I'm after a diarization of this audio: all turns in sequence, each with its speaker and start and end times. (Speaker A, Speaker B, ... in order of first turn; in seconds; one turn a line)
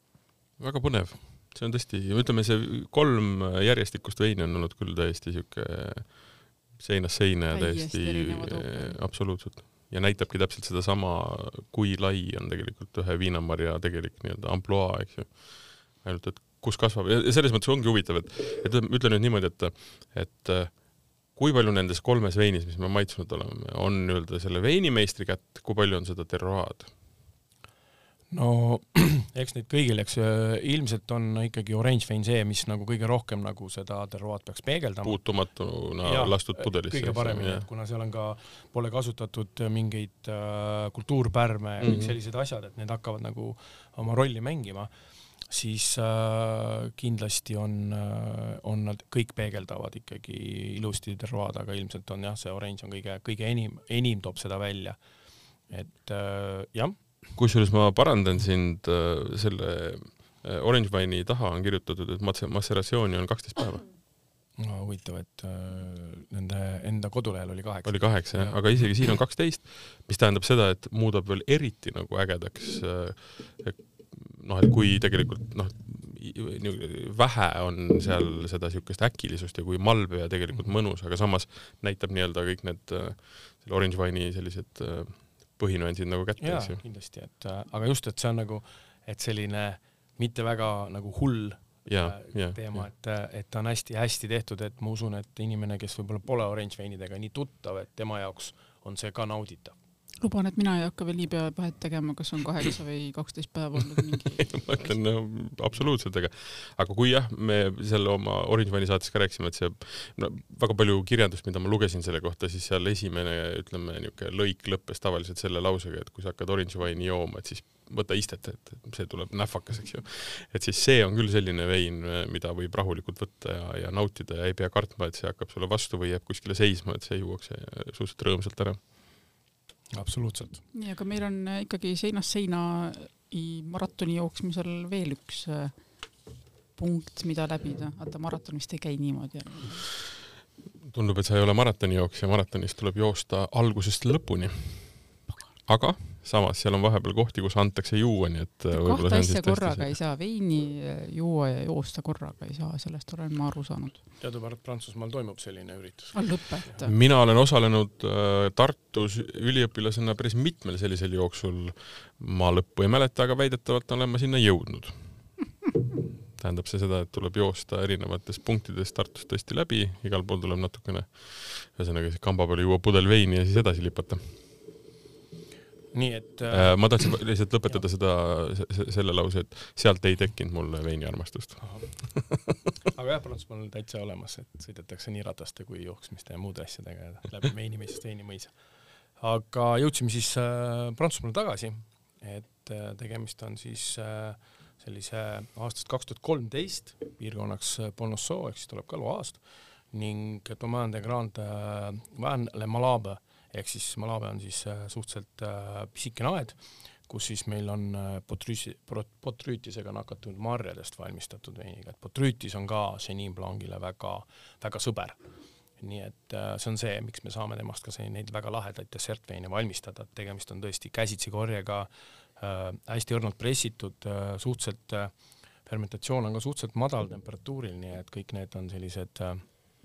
Speaker A: 0.6-26.9
Speaker B: 7.5-9.0
Speaker C: 28.3-35.2
Speaker A: 35.0-37.7
Speaker C: 36.0-44.9
Speaker A: 41.8-42.2
Speaker C: 45.5-55.0
Speaker C: 55.7-57.0
Speaker A: 57.4-63.9
Speaker C: 64.6-68.8
Speaker A: 67.9-86.8
Speaker C: 86.4-99.8
Speaker A: 91.9-92.9
Speaker B: 100.2-104.5
Speaker A: 104.4-128.8
Speaker C: 129.9-130.6
Speaker B: 130.7-136.0
Speaker B: 136.7-139.9
Speaker A: 140.8-149.9
Speaker B: 148.7-154.0
Speaker C: 154.2-156.3
Speaker B: 156.1-156.9
Speaker A: 156.8-165.6
Speaker A: 166.3-174.5
Speaker C: 175.9-177.2
Speaker A: 176.5-182.4
Speaker C: 181.6-188.5
Speaker C: 189.2-215.2
Speaker C: 215.8-225.1
Speaker C: 225.7-229.4